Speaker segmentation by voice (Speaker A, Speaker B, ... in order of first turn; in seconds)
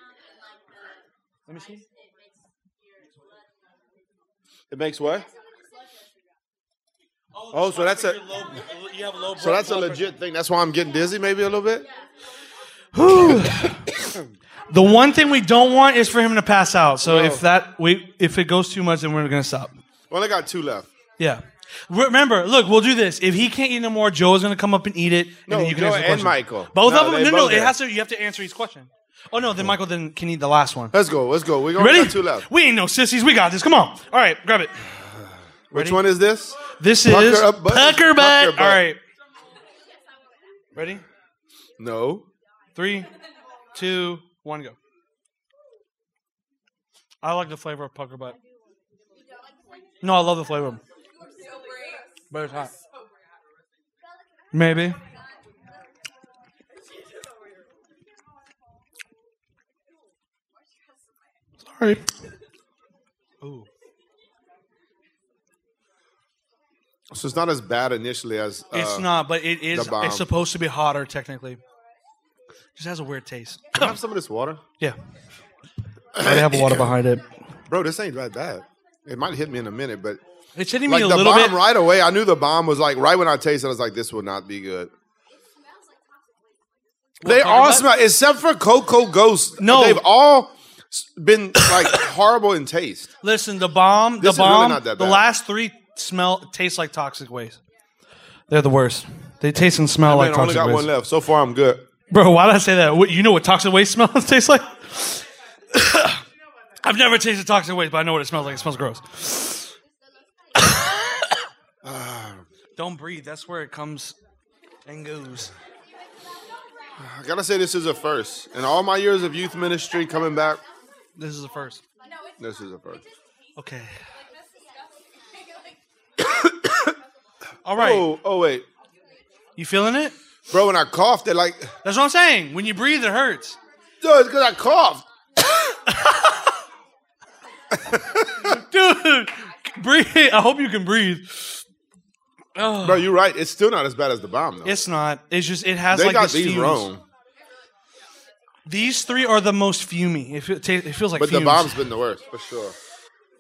Speaker A: 1.5-1.8, 7.4-10.2, 12.9-13.9, 14.7-19.7, 21.2-30.9, 31.8-34.7, 35.7-36.0, 36.8-39.0, 40.7-41.0, 42.8-43.1, 43.7-44.8, 47.2-48.4, 50.0-50.8, 52.3-52.7, 54.5-55.0, 61.6-62.0, 63.4-63.7, 68.7-71.6, 72.8-73.9, 76.2-77.3, 80.6-81.6, 87.2-87.9, 89.6-90.0, 93.2-97.6, 98.5-100.9, 102.1-106.2, 106.8-109.7, 110.6-111.4, 112.8-114.2, 114.9-115.5, 121.2-121.8, 123.6-124.0, 127.7-128.1, 129.6-130.1, 131.8-133.6, 135.5-136.5, 138.3-141.6, 142.6-143.1, 144.7-146.9, 148.7-151.8
Speaker B: 4.7-5.3, 7.5-8.2, 9.4-11.8, 13.3-14.2, 17.0-17.4, 20.1-20.9, 25.5-27.7, 30.9-32.5, 35.7-38.8, 41.8-42.3, 67.1-69.1, 69.7-70.3, 73.7-74.6, 76.1-76.9, 77.7-80.2, 80.9-84.9, 87.2-93.1, 94.2-95.2, 100.0-101.8, 111.8-112.4, 117.0-120.6, 122.4-123.0, 126.2-126.9, 127.8-128.7, 130.5-131.7, 134.0-135.0, 137.8-138.5, 142.8-144.7, 145.9-147.0, 151.2-152.8